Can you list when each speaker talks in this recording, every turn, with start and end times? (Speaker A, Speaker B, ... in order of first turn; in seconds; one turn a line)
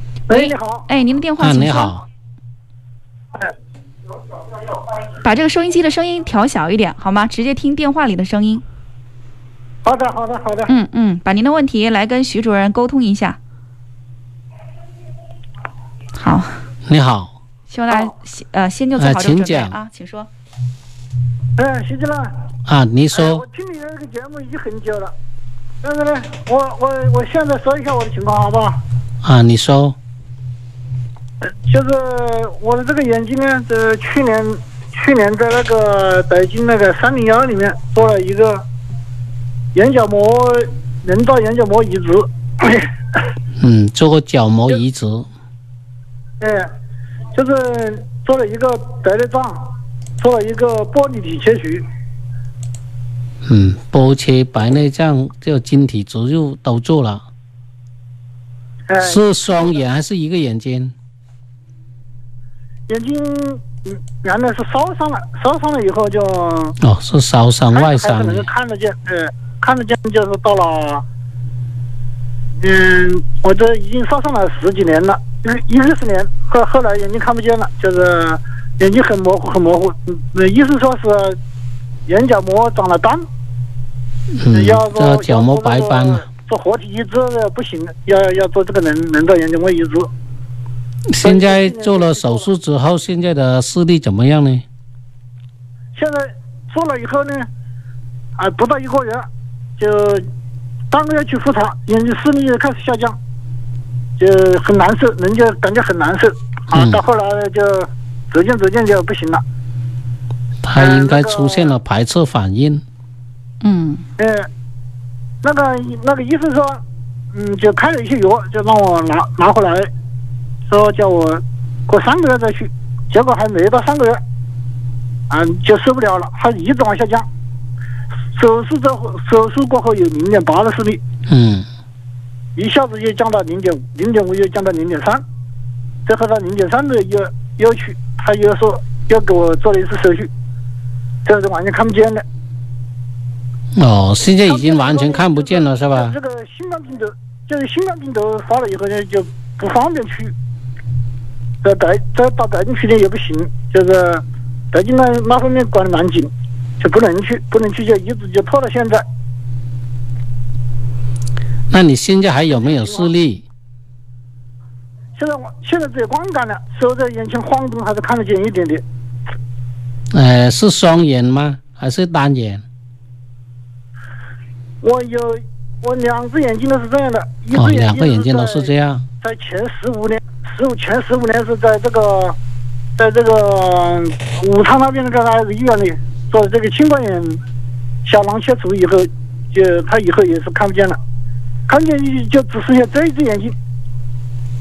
Speaker A: 0.3-0.9
Speaker B: 0.3-2.0
Speaker C: 1.4-2.0
Speaker B: 5.2-8.6
Speaker A: 9.8-10.7
Speaker B: 10.7-13.4
Speaker B: 16.1-16.6
Speaker C: 16.9-17.3
Speaker B: 17.7-20.3
Speaker C: 19.0-19.8
Speaker A: 21.6-22.3
Speaker C: 22.6-23.4
Speaker A: 23.1-25.1
Speaker A: 25.8-28.8
Speaker C: 29.2-30.0
Speaker A: 31.6-38.6
Speaker A: 39.7-42.9
Speaker C: 43.6-45.3
Speaker A: 46.4-46.7
Speaker A: 47.3-51.8
Speaker C: 53.4-57.2
Speaker A: 58.9-59.7
Speaker C: 59.0-60.9
Speaker A: 62.9-66.8
Speaker C: 66.8-68.5
Speaker A: 67.7-71.0
Speaker A: 72.6-81.4
Speaker A: 82.1-83.2
Speaker C: 84.3-86.2
Speaker A: 84.5-90.1
Speaker C: 91.1-94.6
Speaker A: 91.2-92.5
Speaker A: 95.9-97.5
Speaker A: 98.4-99.2
Speaker A: 99.8-100.2
Speaker A: 100.9-103.2
Speaker A: 104.2-109.4
Speaker C: 106.7-107.0
Speaker C: 110.6-112.8
Speaker A: 110.8-111.7
Speaker B: 113.6-114.0
Speaker A: 114.2-114.5
Speaker A: 115.4-116.8
Speaker A: 117.3-119.9
Speaker A: 120.7-124.2
Speaker A: 125.3-127.2
Speaker A: 128.3-131.0
Speaker C: 131.3-131.7
Speaker A: 132.6-135.2
Speaker A: 136.1-140.3
Speaker A: 141.2-142.2
Speaker C: 143.7-146.2
Speaker A: 144.5-150.3
Speaker A: 151.6-159.0
Speaker C: 161.7-163.4
Speaker A: 165.2-168.8
Speaker C: 170.1-172.6
Speaker A: 174.8-178.7
Speaker C: 177.5-179.0
Speaker A: 179.2-182.3
Speaker A: 183.0-187.4
Speaker A: 188.0-191.0
Speaker A: 191.7-193.5